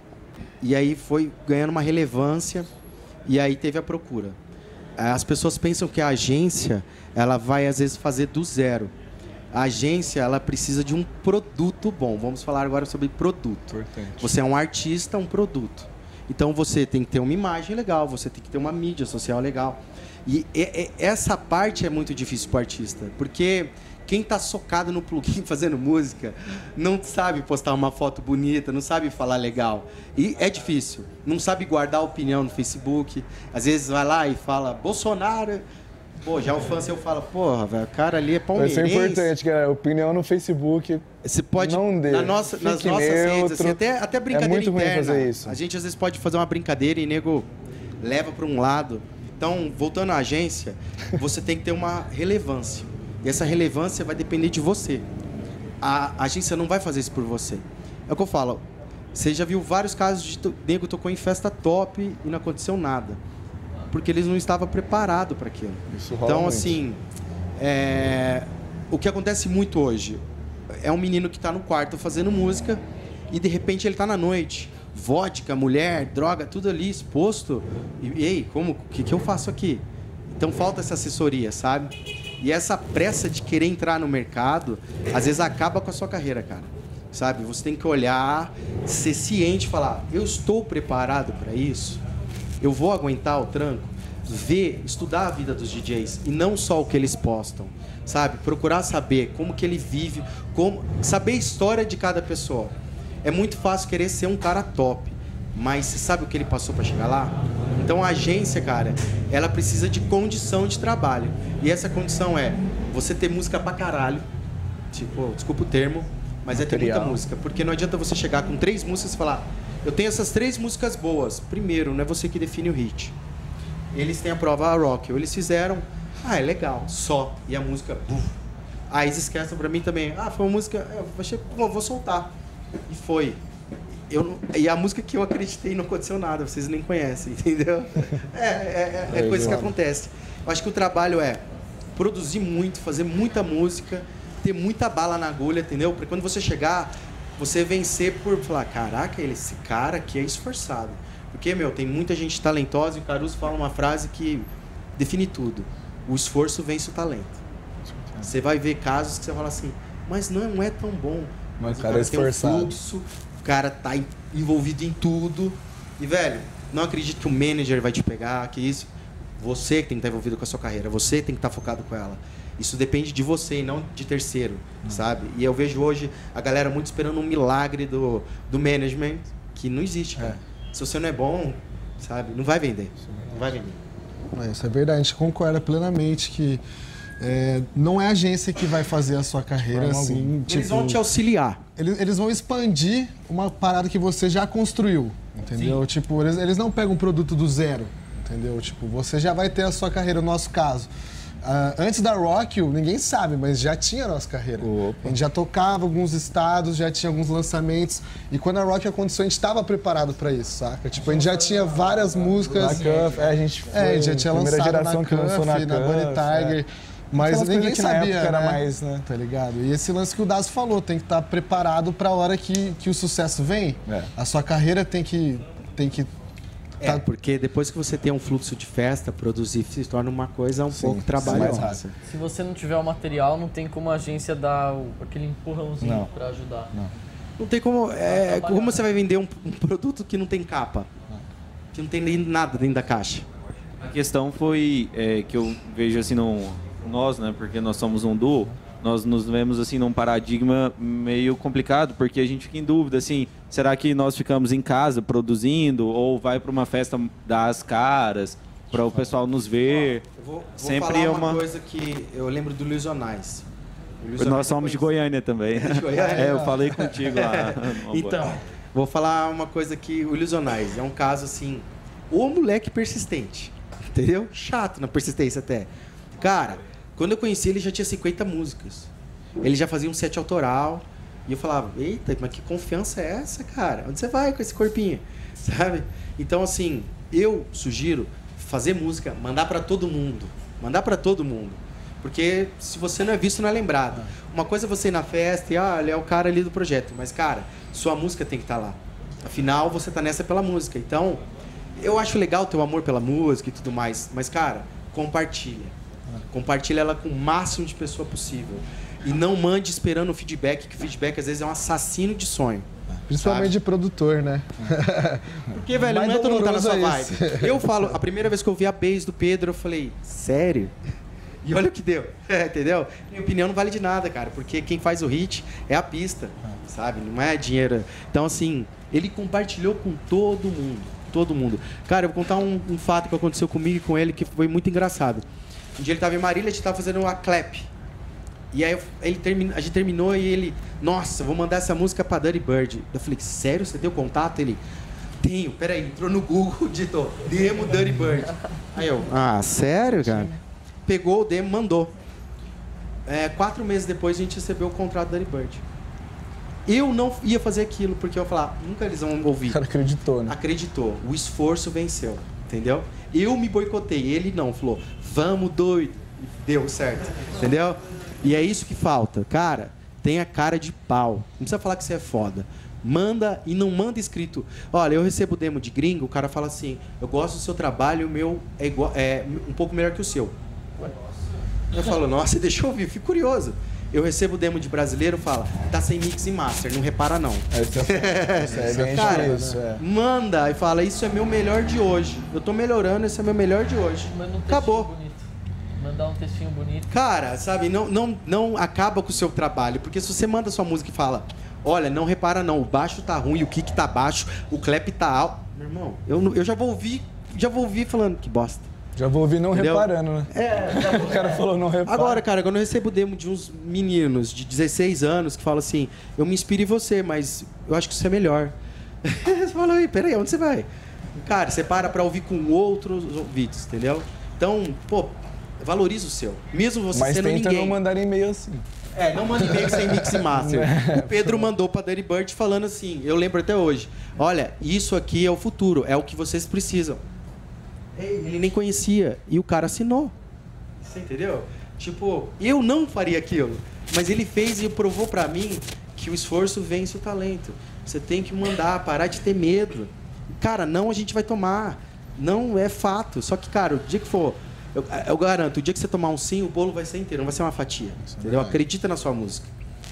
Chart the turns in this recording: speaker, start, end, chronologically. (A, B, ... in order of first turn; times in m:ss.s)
0:00.6-0:02.7 A
0:03.2-0:04.4 A
0:05.0-0:08.9 A
0:09.5-0:35.6 A
0:13.7-0:14.3 B
0:36.2-0:39.3 A
0:38.5-0:41.0 B
0:41.2-0:47.5 A
0:41.6-0:43.8 B
0:44.3-0:45.6 B
0:48.0-0:55.1 A
0:55.8-1:03.2 A
1:03.9-1:07.0 A
1:05.9-1:06.8 B
1:07.6-1:10.2 A
1:10.7-1:19.8 A
1:20.4-1:32.0 A
1:32.6-1:54.2 A
1:54.9-2:03.1 A
1:56.5-1:57.2 B
2:03.9-2:08.4 A
2:08.9-2:12.3 A
2:12.9-2:13.4 A
2:14.1-2:21.4 A
2:19.1-2:19.7 B
2:22.0-2:37.4 A
2:37.9-2:38.3 B
2:38.2-2:48.9 A
2:41.6-2:42.8 B
2:49.4-3:03.8 A
3:04.3-3:06.6 C
3:07.2-3:11.0 C
3:09.7-3:10.3 B
3:10.5-3:11.6 A
3:11.8-3:20.9 C
3:15.5-3:15.8 A
3:21.4-3:33.1 C
3:24.6-3:25.2 B
3:31.0-3:31.4 B
3:32.2-3:36.6 B
3:33.7-3:46.1 C
3:37.2-3:39.0 B
3:46.8-3:52.0 A
3:50.7-3:51.8 B
3:52.0-3:56.7 D
3:55.8-3:56.1 B
3:57.4-4:00.9 A
3:58.0-3:58.8 D
4:01.7-4:03.2 A
4:03.8-4:20.0 E
4:20.2-4:23.4 A
4:20.6-4:21.4 E
4:24.0-4:24.9 A
4:24.2-4:28.3 E
4:25.5-4:26.5 A
4:26.0-4:26.8 C
4:27.0-4:38.9 A
4:39.4-5:01.2 A
5:01.8-5:05.7 A
5:06.3-5:12.7 A
5:13.1-5:17.5 C
5:13.2-5:13.5 A
5:15.5-5:20.7 A
5:21.4-5:35.2 A
5:35.8-5:37.7 A
5:38.5-5:44.6 A
5:45.2-5:50.3 A
5:50.0-5:50.4 B
5:50.8-5:51.9 A
5:53.1-5:55.6 A
5:56.6-5:59.6 A
5:59.5-6:00.4 B
6:00.3-6:20.3 A
6:21.7-6:34.9 A
6:27.5-6:29.8 B
6:28.5-6:29.6 C
6:34.1-6:35.2 D
6:35.8-6:36.9 D
6:36.9-6:48.7 A
6:49.0-6:52.2 B
6:49.5-7:00.7 A
7:01.2-7:07.8 A
7:06.9-7:08.6 B
7:08.9-7:17.0 A
7:09.8-7:11.5 B
7:18.0-7:20.1 A
7:20.8-7:39.5 A
7:38.1-7:38.6 B